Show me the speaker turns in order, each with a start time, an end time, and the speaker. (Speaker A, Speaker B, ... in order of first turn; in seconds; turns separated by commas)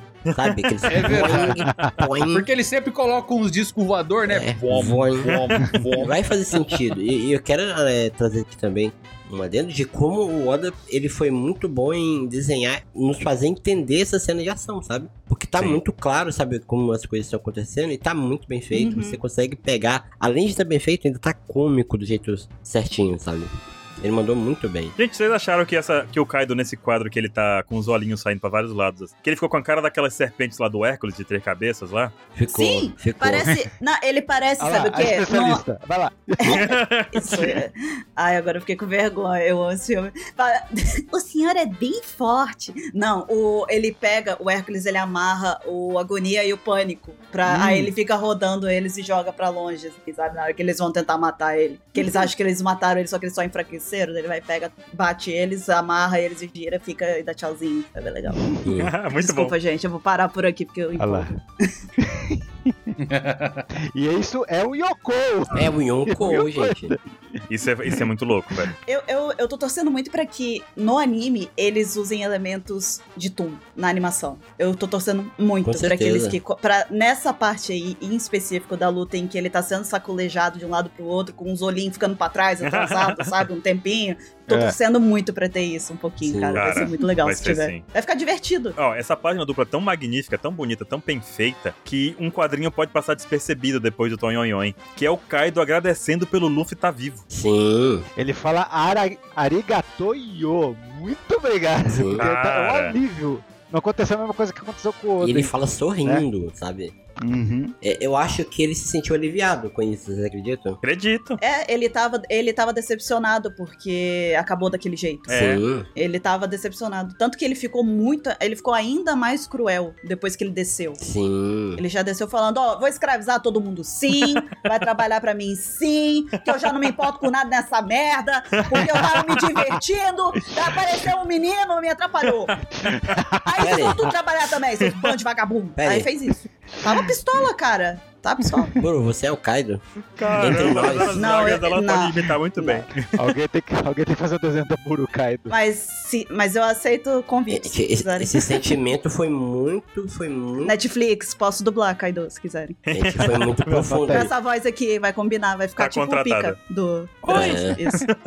Speaker A: 0.3-1.2, Speaker B: 0.3-2.5, Speaker C: 0.9-1.7, Speaker D: 1.6-1.9, Speaker C: 2.2-6.2, Speaker B: 4.3-25.0, Speaker E: 18.7-19.2, Speaker A: 25.0-32.1, Speaker B: 32.3-33.5, Speaker E: 32.5-35.6, Speaker D: 34.6-36.8, Speaker E: 36.4-58.6, Speaker A: 36.5-37.6, Speaker D: 47.5-47.9, Speaker D: 58.4-58.6, Speaker B: 58.6-58.9, Speaker A: 58.8-59.5, Speaker E: 59.1-61.7, Speaker D: 61.0-61.4, Speaker D: 62.0-63.0, Speaker C: 63.0-63.7, Speaker D: 63.9-68.1, Speaker B: 65.5-67.0, Speaker A: 67.5-68.7, Speaker E: 68.9-88.8, Speaker B: 75.7-76.4, Speaker A: 82.6-83.3, Speaker D: 84.5-84.8, Speaker B: 86.2-86.9, Speaker A: 86.5-87.8, Speaker A: 88.8-97.3, Speaker B: 97.3-98.1, Speaker D: 98.2-106.3, Speaker B: 101.9-102.3, Speaker A: 102.2-103.0, Speaker B: 105.2-106.9, Speaker D: 107.2-107.7, Speaker B: 107.8-110.8, Speaker A: 110.8-111.4, Speaker E: 111.4-115.3, Speaker A: 115.3-115.6, Speaker B: 115.3-115.9, Speaker E: 116.0-121.0, Speaker B: 121.0-121.8, Speaker E: 121.8-132.6, Speaker A: 128.6-129.6, Speaker D: 132.8-133.9, Speaker A: 132.9-133.2, Speaker E: 133.4-138.8, Speaker B: 133.6-134.1, Speaker A: 134.8-135.1, Speaker B: 135.8-136.1, Speaker B: 138.8-139.8, Speaker A: 140.2-143.2, Speaker B: 140.3-141.5, Speaker E: 140.5-142.9, Speaker D: 143.1-145.5, Speaker E: 145.5-148.8, Speaker B: 147.5-150.8, Speaker E: 150.6-152.8, Speaker A: 152.9-154.1, Speaker B: 152.9-154.3, Speaker E: 154.1-158.1, Speaker A: 155.8-156.6, Speaker A: 157.2-158.2, Speaker B: 157.3-157.8